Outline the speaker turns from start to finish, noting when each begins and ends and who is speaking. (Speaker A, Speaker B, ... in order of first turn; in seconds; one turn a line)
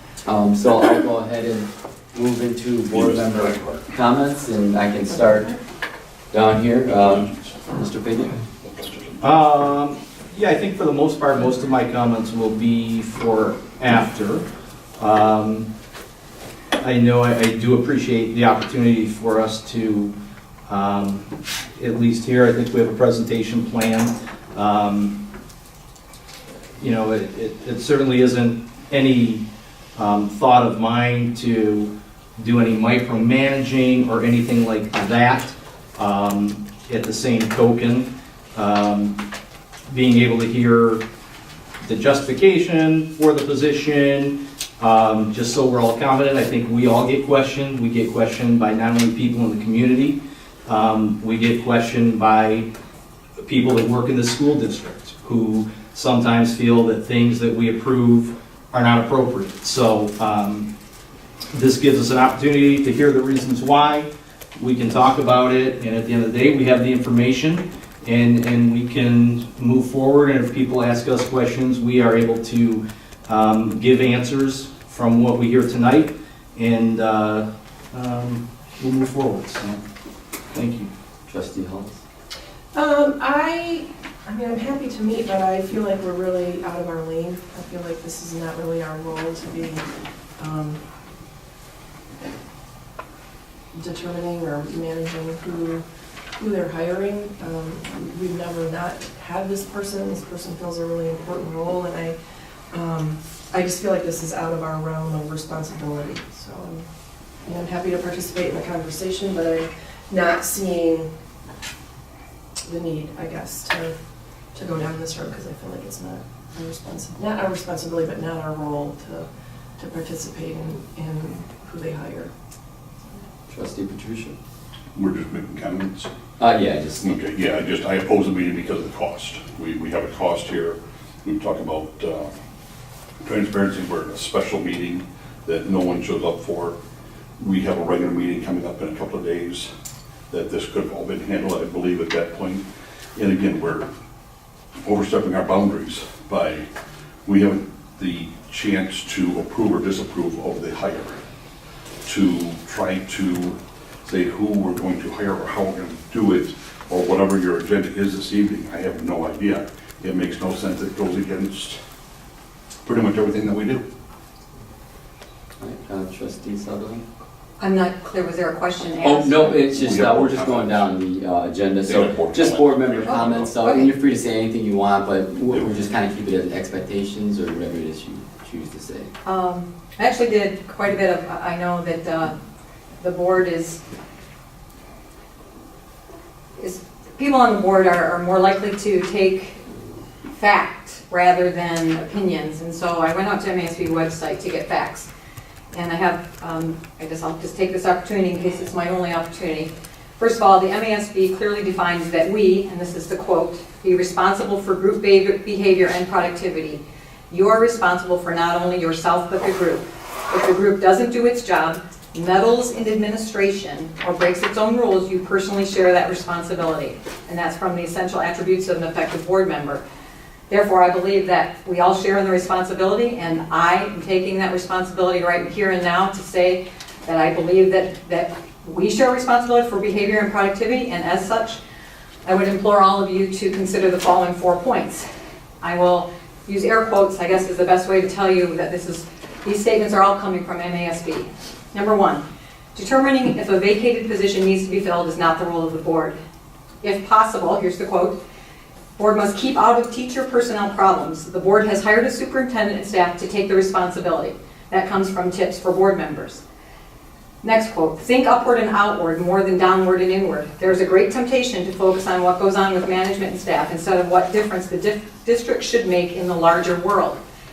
Speaker A: 0.2-5.5
Speaker B: 2.9-3.8
Speaker A: 6.3-8.4
Speaker B: 6.9-7.6
Speaker B: 8.6-9.7
Speaker C: 9.2-14.4
Speaker C: 15.0-15.7
Speaker C: 16.8-20.1
Speaker C: 20.7-25.2
Speaker C: 26.8-29.4
Speaker C: 29.9-39.2
Speaker C: 39.9-41.0
Speaker C: 41.8-52.6
Speaker C: 53.4-60.7
Speaker C: 61.5-79.8
Speaker C: 80.5-80.9
Speaker A: 81.3-82.0
Speaker D: 82.7-89.8
Speaker D: 90.4-90.8
Speaker D: 93.7-95.8
Speaker D: 96.4-102.2
Speaker D: 102.7-106.8
Speaker D: 107.4-111.1
Speaker D: 112.6-113.9
Speaker D: 114.5-122.3
Speaker A: 123.5-124.3
Speaker B: 124.9-126.1
Speaker A: 126.4-127.1
Speaker B: 127.0-132.3
Speaker B: 133.2-136.8
Speaker B: 137.4-139.7
Speaker B: 140.3-142.6
Speaker B: 143.2-143.9
Speaker B: 144.8-146.6
Speaker B: 147.2-151.2
Speaker B: 152.1-161.8
Speaker B: 162.8-163.8
Speaker A: 165.6-167.0
Speaker E: 167.6-169.5
Speaker A: 169.0-179.1
Speaker B: 169.6-170.9
Speaker B: 171.8-173.5
Speaker E: 173.1-173.9
Speaker E: 179.2-182.3
Speaker E: 183.0-183.8
Speaker E: 186.6-189.6
Speaker E: 190.3-195.1
Speaker E: 195.7-219.8
Speaker E: 220.5-231.6
Speaker E: 232.2-235.1
Speaker E: 235.6-242.2
Speaker E: 242.7-246.2
Speaker E: 246.8-248.2
Speaker E: 249.0-256.4
Speaker E: 257.4-267.2